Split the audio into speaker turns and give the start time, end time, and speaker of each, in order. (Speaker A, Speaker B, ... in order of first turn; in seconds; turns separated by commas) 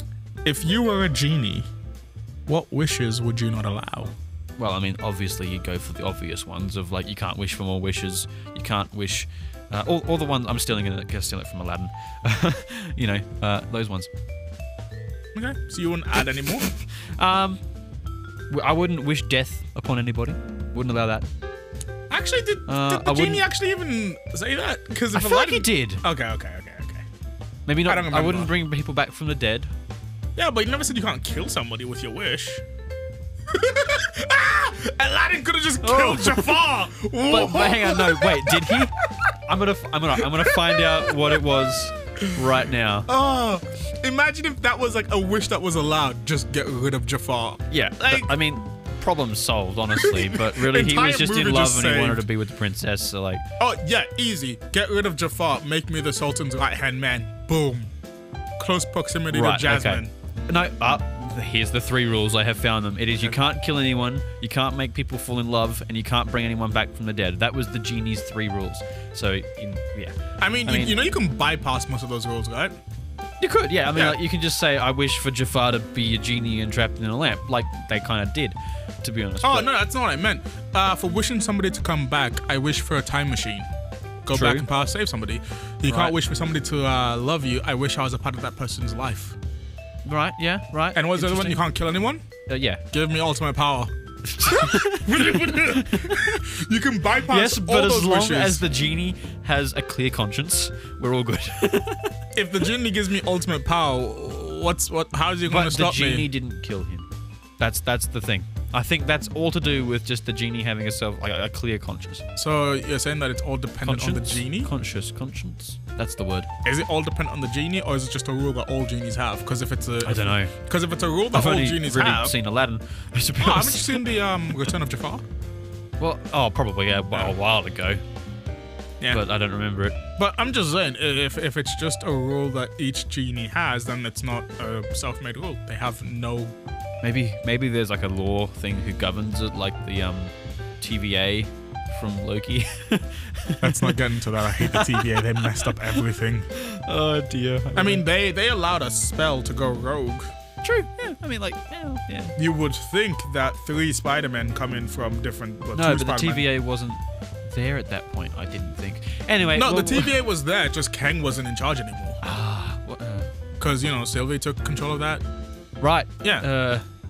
Speaker A: 0.4-1.7, Speaker A: 2.5-4.1, Speaker B: 4.6-14.1, Speaker A: 15.3-16.7, Speaker B: 17.0-17.6, Speaker B: 18.5-21.2, Speaker A: 22.1-27.0, Speaker B: 22.7-23.4, Speaker B: 25.1-26.0, Speaker B: 27.7-29.7, Speaker A: 27.8-28.5, Speaker A: 30.4-32.6, Speaker A: 33.5-38.9, Speaker B: 35.8-38.9, Speaker B: 39.5-43.1, Speaker A: 40.2-41.2, Speaker A: 43.1-48.4, Speaker B: 47.7-53.4, Speaker A: 49.9-52.2, Speaker A: 53.6-57.9, Speaker A: 58.6-60.1, Speaker B: 59.3-71.1, Speaker A: 70.4-72.8, Speaker B: 73.4-79.7, Speaker A: 73.9-74.2, Speaker A: 79.4-83.7, Speaker A: 84.2-89.3, Speaker B: 84.3-84.7, Speaker B: 85.8-86.1, Speaker B: 90.0-91.6, Speaker A: 90.9-92.2, Speaker B: 92.5-92.8, Speaker A: 92.9-98.6, Speaker B: 94.3-96.2, Speaker B: 97.2-102.1, Speaker A: 102.3-106.3, Speaker B: 105.5-107.1, Speaker B: 107.6-112.2, Speaker A: 112.3-114.7, Speaker B: 113.8-116.5, Speaker A: 116.6-122.3, Speaker B: 120.0-120.5, Speaker B: 121.3-124.0, Speaker A: 123.4-125.2, Speaker B: 126.0-128.0, Speaker B: 129.1-130.0, Speaker A: 130.2-136.6, Speaker B: 137.0-146.0, Speaker A: 143.6-146.5, Speaker B: 146.5-148.1, Speaker A: 147.7-150.3, Speaker B: 150.6-152.3, Speaker A: 152.4-156.5, Speaker B: 155.7-160.2, Speaker A: 159.5-162.2, Speaker B: 162.2-163.3, Speaker A: 163.6-165.2, Speaker B: 165.8-166.8, Speaker A: 166.2-166.5